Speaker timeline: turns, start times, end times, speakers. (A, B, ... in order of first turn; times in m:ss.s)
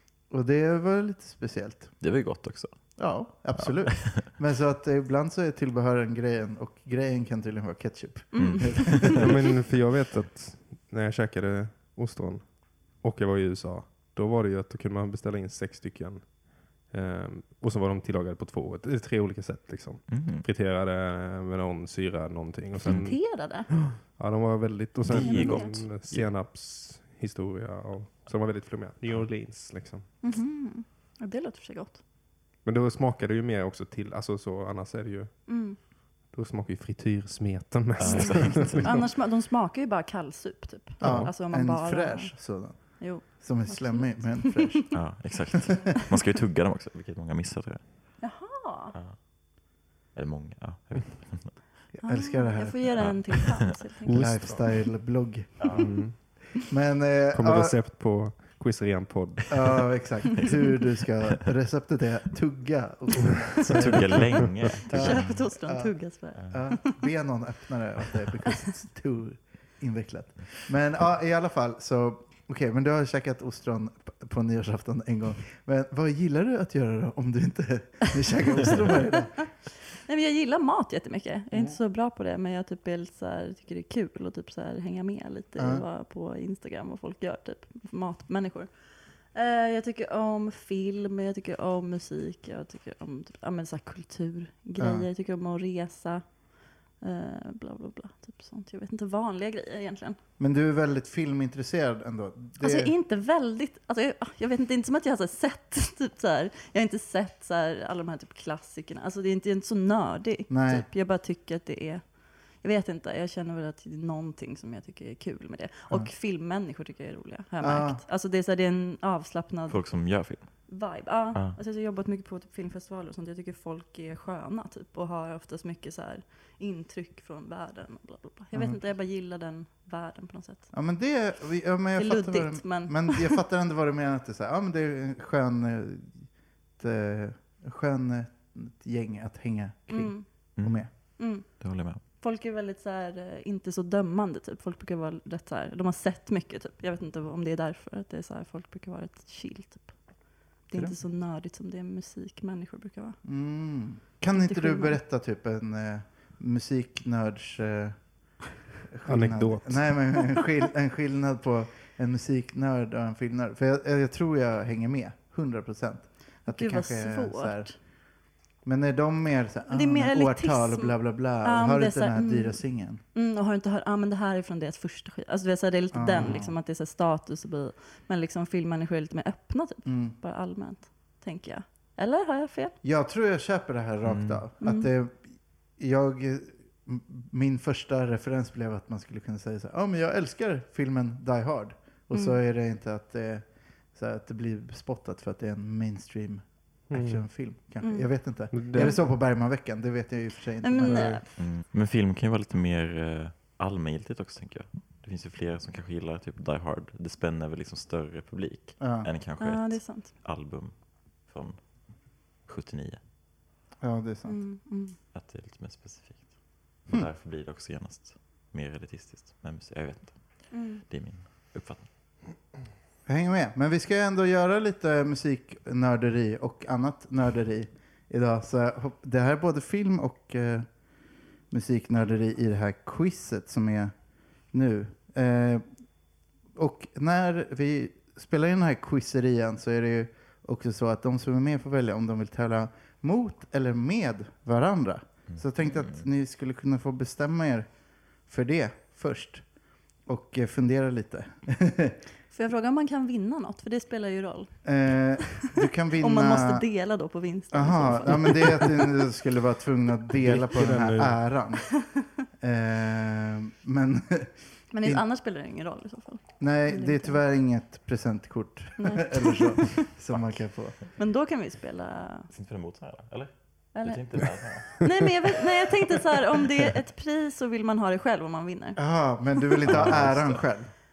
0:00.3-0:01.9 A
0:02.0-0:03.0 B
0:03.0-0:09.3 A
0:03.6-0:04.3 B
0:08.3-0:09.2 C
0:08.4-0:09.3 B
0:09.2-0:30.0 D
0:20.1-0:20.5 B
0:22.8-0:23.7 C
0:25.0-0:26.3 B
0:25.1-0:25.7 C
0:30.2-0:32.0 C
0:32.6-0:35.3 D
0:35.5-0:35.8 C
0:36.3-0:39.0 D
0:38.0-0:38.9 B
0:38.1-0:42.4 C
0:41.0-0:44.9 A
0:41.0-0:41.3 D
0:43.0-0:44.9 C
0:44.9-0:48.1 B
0:48.2-0:49.0 C
0:50.1-0:51.6 B
0:52.0-0:52.9 A
0:52.0-0:54.2 C
0:53.0-0:53.6 B
0:54.1-0:54.7 D
0:54.1-0:57.8 A
0:55.6-0:56.0 B
0:55.8-0:56.4 D
0:57.3-0:59.8 D
0:59.5-1:04.4 A
1:03.6-1:05.5 B
1:04.9-1:19.5 A
1:04.9-1:07.0 C
1:20.0-1:28.7 C
1:25.6-1:25.8 A
1:29.3-1:36.4 C
1:34.8-1:35.1 A
1:37.0-1:40.2 C
1:40.4-1:42.9 A
1:42.6-1:59.8 C
1:50.5-1:50.9 A
1:57.6-1:58.0 A
1:59.7-2:00.7 B
2:00.7-2:10.7 C
2:08.5-2:08.8 A
2:10.7-2:16.2 A
2:12.0-2:13.4 C
2:16.8-2:20.9 A
2:19.9-2:20.3 C
2:20.6-2:20.8 B
2:21.2-2:21.5 C
2:21.6-2:22.0 B
2:22.2-2:30.2 C
2:30.7-2:33.2 C
2:33.2-2:38.0 A
2:34.3-2:35.0 C
2:38.9-2:47.7 A
2:39.0-2:40.0 D
2:46.5-2:47.7 C
2:48.6-2:53.0 A
2:49.7-2:52.6 C
2:53.1-3:02.8 C
2:55.9-2:56.6 A
2:59.9-3:00.2 A
3:02.8-3:05.3 A
3:04.0-3:04.4 B
3:04.6-3:04.9 C
3:05.8-3:21.2 A
3:12.1-3:12.4 C
3:16.9-3:17.3 D
3:17.8-3:18.1 C
3:18.5-3:19.0 D
3:18.7-3:19.0 C
3:20.6-3:21.3 C
3:20.9-3:21.2 D
3:21.4-3:31.6 B
3:28.8-3:29.1 A
3:29.4-3:30.1 C
3:32.4-3:33.0 B
3:33.8-3:34.4 A
3:34.2-3:35.0 C
3:35.1-3:36.3 B
3:36.9-3:41.9 B
3:40.5-3:40.8 C
3:43.1-3:50.7 A
3:51.5-3:53.9 A
3:54.5-3:55.6 A
3:56.6-4:07.7 A
4:05.3-4:06.1 B
4:08.3-4:09.4 A
4:10.1-4:12.0 A
4:12.3-4:14.6 C
4:14.6-4:16.6 A
4:15.2-4:15.5 C
4:16.0-4:19.1 C
4:17.5-4:21.7 A
4:20.2-4:21.2 D
4:22.4-4:24.3 A
4:24.7-4:27.2 C
4:26.4-4:30.8 A
4:28.8-4:29.9 C
4:31.0-4:32.3 C
4:32.3-4:34.9 B
4:33.8-4:38.8 C
4:38.8-4:40.7 A
4:39.4-4:39.8 C
4:39.7-4:40.4 B